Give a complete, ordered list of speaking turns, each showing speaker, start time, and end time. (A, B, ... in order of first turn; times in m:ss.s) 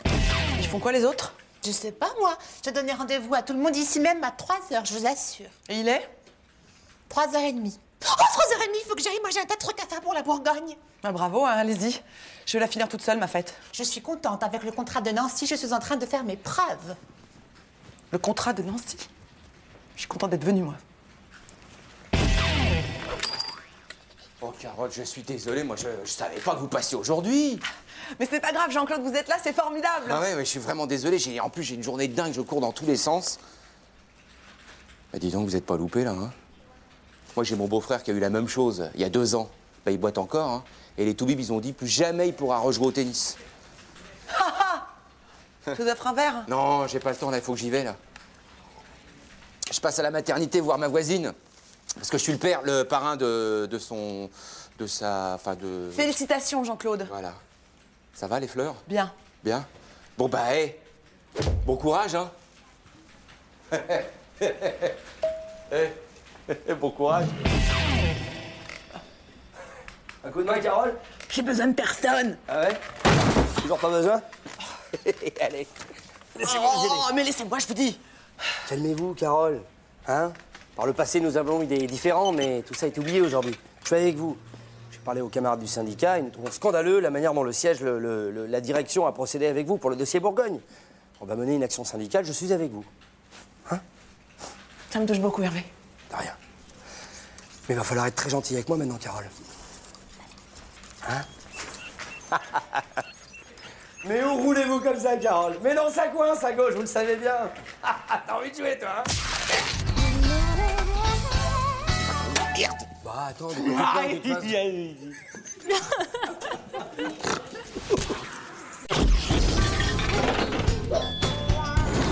0:00.6-0:01.4 A
0:01.6-0:05.5 B
0:05.7-0:06.1 A
0:07.1-0:10.8 B
0:11.0-0:13.6 A
0:13.7-0:17.0 B
0:18.1-0:19.1 A
0:20.0-0:20.8 A
0:24.4-0:27.6 C
0:28.2-0:30.2 A
0:30.0-0:33.4 C
0:35.1-0:36.3 C
0:37.3-0:43.4 C
0:44.3-0:44.8 A
0:45.8-0:46.5 A
0:46.5-0:48.0 C
0:49.7-0:51.4 C
0:52.0-0:56.1 C
0:56.0-0:57.1 A
0:57.1-0:57.4 C
0:58.2-0:58.8 C
0:58.9-0:59.1 A
0:59.4-1:00.8 C
1:01.6-1:02.3 C
1:03.7-1:04.9 C
1:06.5-1:07.3 C
1:10.2-1:11.0 D
1:12.5-1:12.8 D
1:13.6-1:14.2 D
1:16.4-1:17.1 D
1:16.4-1:18.0 A
1:18.7-1:30.6 D
1:31.2-1:32.9 D
1:34.9-1:35.7 A
1:36.1-1:36.4 D
1:37.7-1:39.3 D
1:44.0-1:49.1 D
1:52.5-1:52.8 C
1:53.0-1:54.6 D
1:53.6-1:55.2 C